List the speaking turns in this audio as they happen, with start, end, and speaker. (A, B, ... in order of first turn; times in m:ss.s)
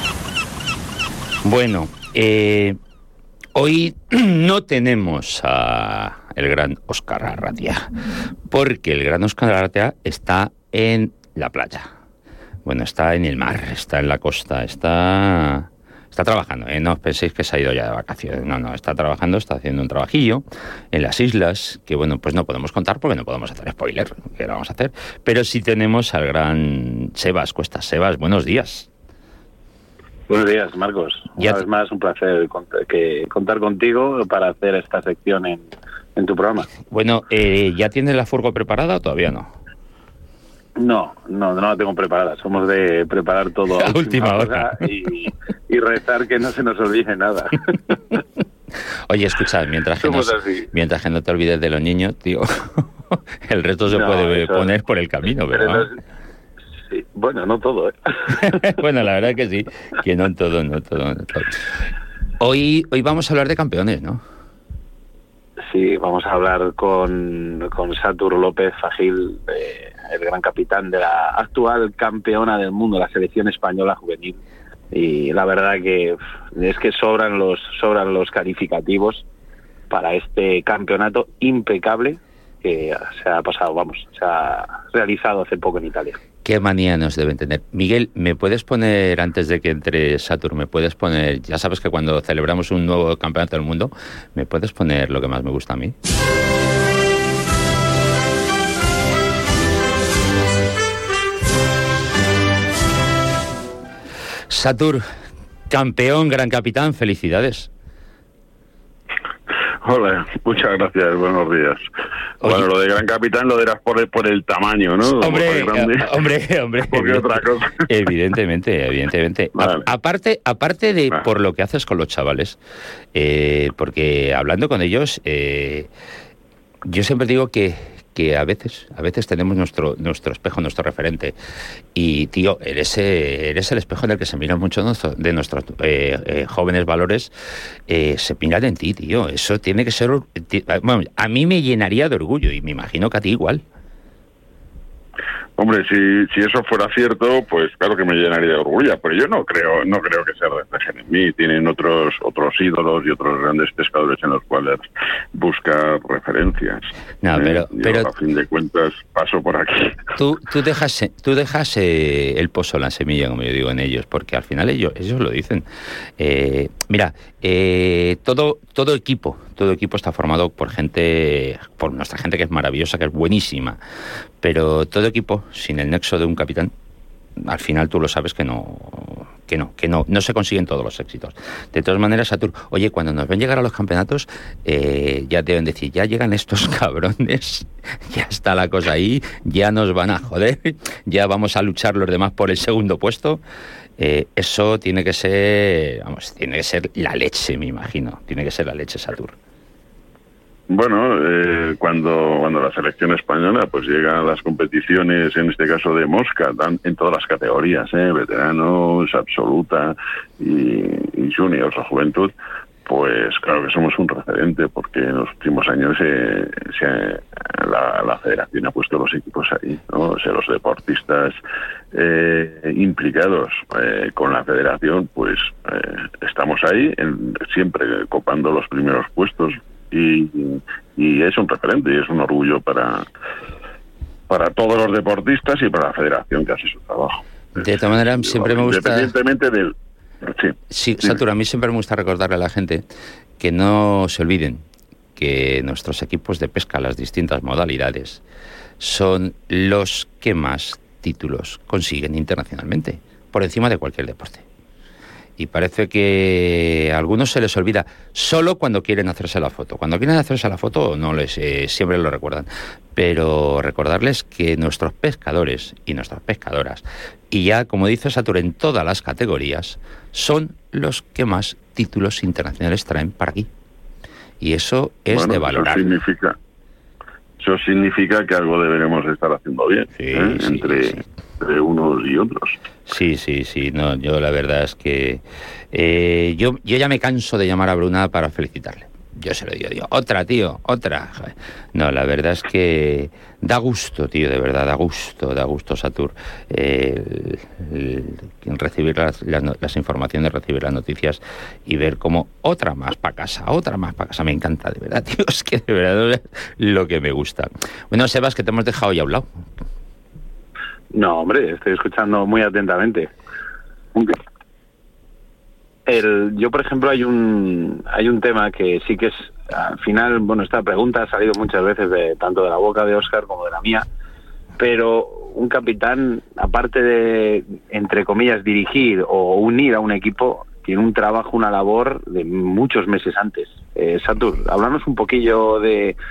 0:01.4-0:02.8 A
0:03.5-0:11.9 A
0:12.6-0:28.9 A
0:30.3-0:36.7 B
0:36.9-0:39.5 A
0:40.8-0:47.8 B
0:43.8-0:44.8 A
0:49.1-0:55.9 A
0:50.0-0:50.7 B
0:53.9-0:54.7 B
0:55.5-0:56.0 B
0:56.9-0:58.6 B
0:58.4-1:01.8 A
1:02.4-1:04.2 A
1:05.7-1:14.4 B
1:14.9-1:19.2 B
1:19.9-1:26.2 B
1:26.4-1:35.9 A
1:44.5-1:45.0 A
1:45.7-1:47.7 A
1:49.8-1:51.8 C
1:52.4-1:56.1 C
1:52.4-1:52.7 A
1:55.2-1:57.3 A
1:56.9-1:57.9 C
1:57.8-2:02.6 A
1:59.6-1:59.9 C
2:03.1-2:05.9 A
2:06.8-2:11.3 A
2:11.9-2:17.3 A
2:17.9-2:23.6 A
2:25.6-2:40.1 C
2:37.2-2:38.1 A
2:40.2-2:45.6 A
2:46.2-2:53.8 A
2:54.4-2:56.7 A
2:57.4-3:13.4 A
3:14.0-3:19.4 A
3:20.7-3:32.3 C
3:32.8-3:41.4 C
3:41.9-3:53.1 C
3:54.3-4:01.2 C
3:57.5-3:59.1 A
4:00.7-4:02.8 A
4:03.4-4:04.6 A
4:05.2-4:08.2 A
4:08.8-4:14.4 A
4:15.4-4:33.5 A
4:34.4-4:35.9 A
4:35.1-4:36.4 C
4:37.4-4:42.6 C
4:40.0-4:41.0 A
4:42.9-5:09.2 A
5:10.9-5:13.1 B
5:15.9-5:23.8 B
5:24.6-5:36.0 B